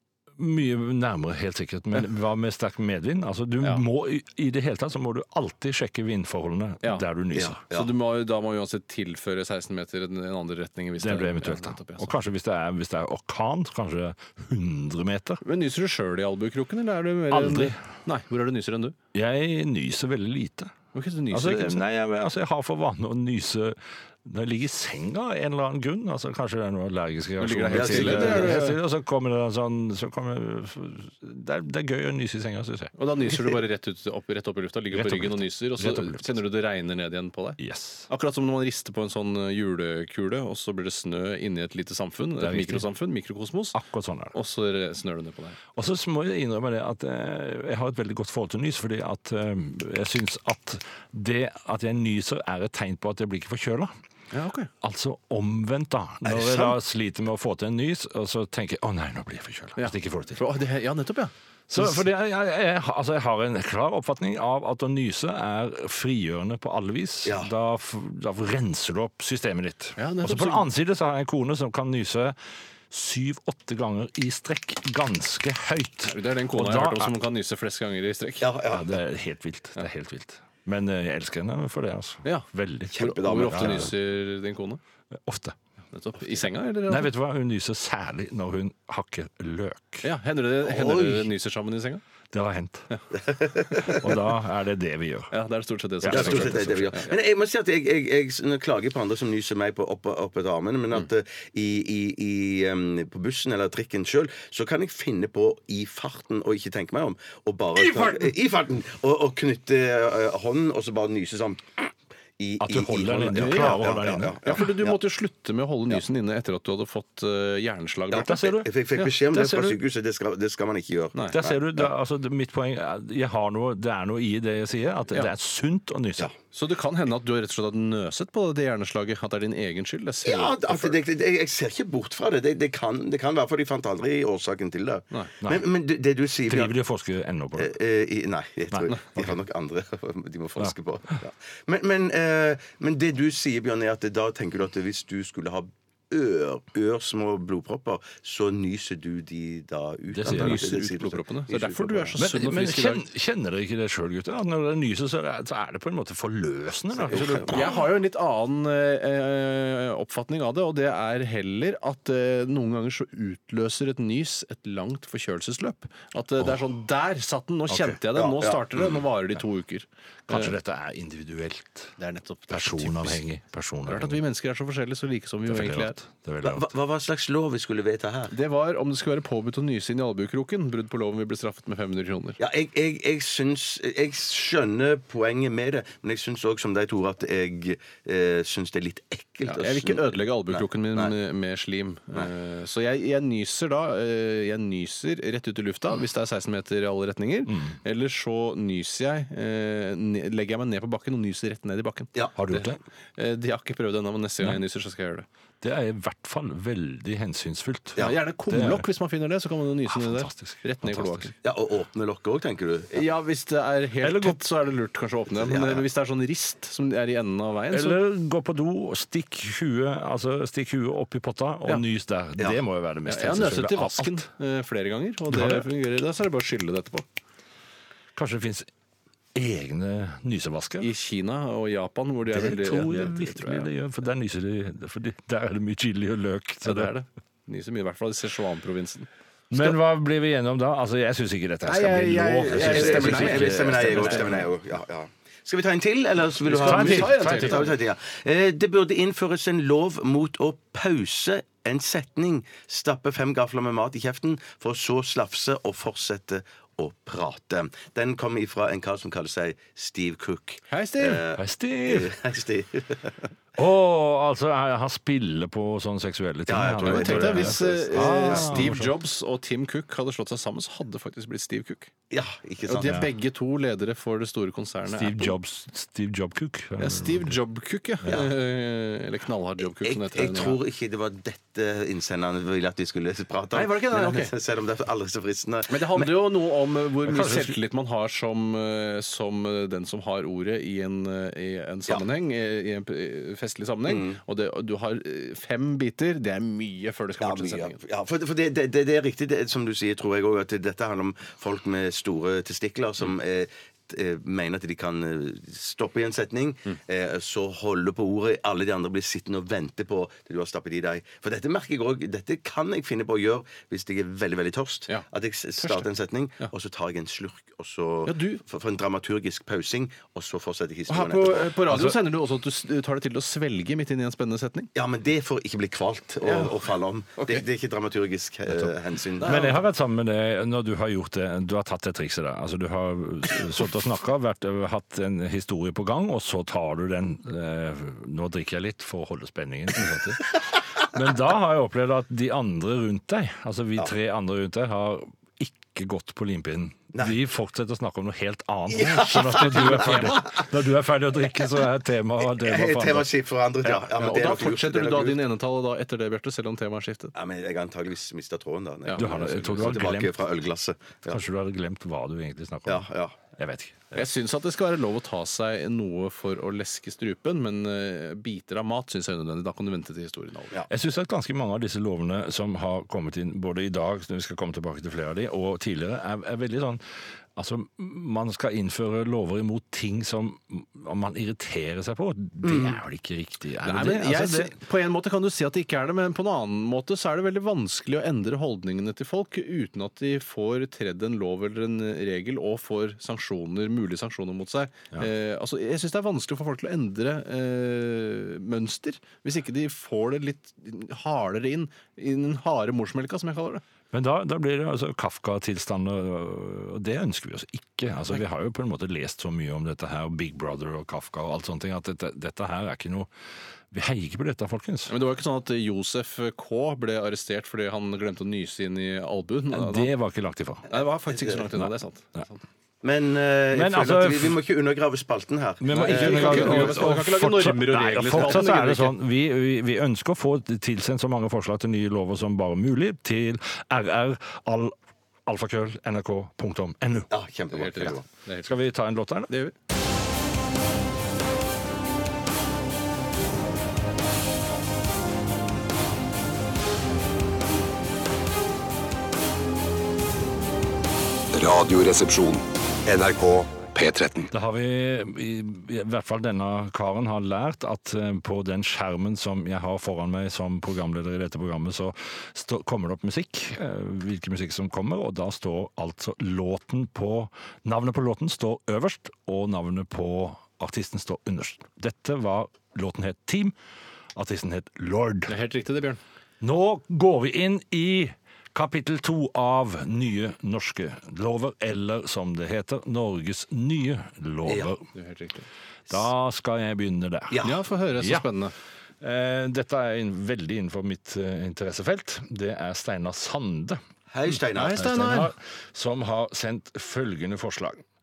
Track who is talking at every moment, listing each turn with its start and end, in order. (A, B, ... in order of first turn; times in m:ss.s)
0:00.4-0:07.6 A
0:07.3-0:07.9 B
0:07.7-0:12.2 C
0:11.0-0:15.4 A
0:15.4-0:18.9 C
0:17.3-0:17.8 A
0:19.1-0:20.7 A
0:20.9-0:21.8 C
0:21.3-0:32.9 A
0:27.4-0:28.8 C
0:27.7-0:28.6 B
0:33.0-0:37.6 C
0:34.9-0:36.4 A
0:37.6-0:38.1 A
0:38.1-0:43.8 C
0:42.4-0:42.8 A
0:43.7-0:44.3 A
0:44.3-0:45.6 C
0:45.7-0:53.9 A
0:54.3-0:54.7 C
0:54.8-1:00.4 A
0:56.2-0:56.7 B
0:59.8-1:02.0 C
1:01.7-1:12.4 A
1:07.2-1:07.5 B
1:10.0-1:10.6 C
1:12.9-1:17.1 A
1:16.1-1:18.5 C
1:18.4-1:19.0 B
1:18.7-1:23.9 A
1:22.2-1:24.8 C
1:22.9-1:23.9 B
1:25.2-1:25.6 A
1:25.9-1:27.1 C
1:26.9-1:30.0 A
1:30.0-1:32.0 C
1:30.6-1:31.3 B
1:32.3-1:32.9 A
1:33.2-1:34.2 B
1:33.7-1:34.0 C
1:33.8-1:35.3 A
1:35.3-1:37.1 C
1:36.0-1:37.0 A
1:36.1-1:55.0 B
1:47.7-1:48.3 C
1:52.6-1:54.5 A
1:53.3-1:53.9 C
1:54.4-1:59.1 C
1:58.1-2:01.9 B
1:58.2-1:59.8 A
2:01.1-2:01.4 C
2:01.3-2:06.3 A
2:06.5-2:11.0 C
2:10.2-2:16.7 B
2:16.5-2:17.7 A
2:17.6-2:32.2 B
2:18.7-2:19.3 A
2:30.1-2:30.6 A
2:30.2-2:33.0 C
2:32.2-2:37.8 A
2:37.0-2:37.7 B
2:37.4-2:50.5 C
2:47.7-2:48.0 A
2:48.1-2:48.8 B
2:50.3-2:51.9 A
2:52.0-2:53.2 C
2:52.5-2:54.2 A
2:53.9-2:56.0 C
2:55.5-2:56.7 A
2:56.4-2:58.3 B
2:58.3-3:02.4 C
3:02.4-3:11.1 B
3:09.4-3:25.3 C
3:17.5-3:17.8 A
3:22.4-3:22.8 A
3:25.6-3:28.9 A
3:28.0-3:31.3 C
3:29.9-3:31.3 A
3:31.4-3:33.0 B
3:32.9-3:38.0 C
3:34.0-3:34.4 A
3:35.3-3:35.8 B
3:37.7-3:44.2 A
3:43.0-3:47.1 C
3:45.3-3:45.6 A
3:48.2-3:48.7 A
3:49.3-3:50.9 A
3:50.8-3:53.7 C
3:52.3-3:56.9 A
3:56.6-3:59.7 C
3:59.5-4:04.4 A
4:01.6-4:04.4 C
4:02.5-4:23.3 B
4:06.4-4:07.7 C
4:06.6-4:07.7 A
4:20.7-4:21.2 C
4:21.4-4:22.1 A
4:23.6-4:28.9 A
4:26.5-4:28.8 B
4:26.8-4:31.9 C
4:32.1-4:33.1 B
4:32.6-4:35.3 C
4:32.8-4:33.1 A
4:34.9-4:37.4 A
4:36.8-4:40.6 C
4:38.0-4:38.3 B
4:39.7-4:46.1 B
4:43.5-4:44.3 C
4:45.7-4:57.8 C
4:47.0-4:47.5 A
4:53.9-4:54.2 B
4:57.2-5:21.6 B
5:15.6-5:15.9 C
5:18.0-5:18.4 C
5:20.9-5:24.7 C
5:24.7-5:29.5 B
5:26.2-5:26.6 C
5:27.2-5:27.4 C
5:28.5-5:53.1 A
5:29.2-5:29.6 C
5:48.7-5:50.3 B
5:49.6-5:50.2 C
5:52.2-5:55.2 B
5:53.6-5:57.1 C
5:57.1-6:01.2 B
5:58.8-5:59.7 C
5:59.0-6:00.2 A
6:01.1-6:04.0 A
6:02.6-6:03.2 B
6:03.9-6:10.6 C
6:10.7-6:16.8 A
6:17.4-6:24.6 A
6:22.4-6:22.8 B
6:23.6-6:43.6 C
6:43.9-6:53.1 A
6:53.7-6:54.9 A
6:54.9-6:59.9 C
6:59.5-7:00.7 A
7:00.7-7:02.4 C
7:01.1-7:01.4 B
7:02.8-7:06.9 B
7:03.5-7:04.4 A
7:05.6-7:14.7 A
7:05.7-7:09.0 C
7:15.2-7:17.1 A
7:17.1-7:18.0 B
7:17.5-7:18.5 C
7:18.4-7:19.4 A
7:31.3-7:34.3 D
7:34.3-7:53.5 A
7:54.1-7:55.3 A
7:55.3-7:56.0 C
7:56.4-8:04.8 A
8:04.4-8:04.7 B
8:04.9-8:05.5 C
8:05.9-8:08.2 A
8:07.3-8:07.6 B
8:07.4-8:08.5 C
8:09.0-8:13.8 A
8:14.1-8:14.9 B
8:14.5-8:15.3 C
8:14.8-8:17.8 A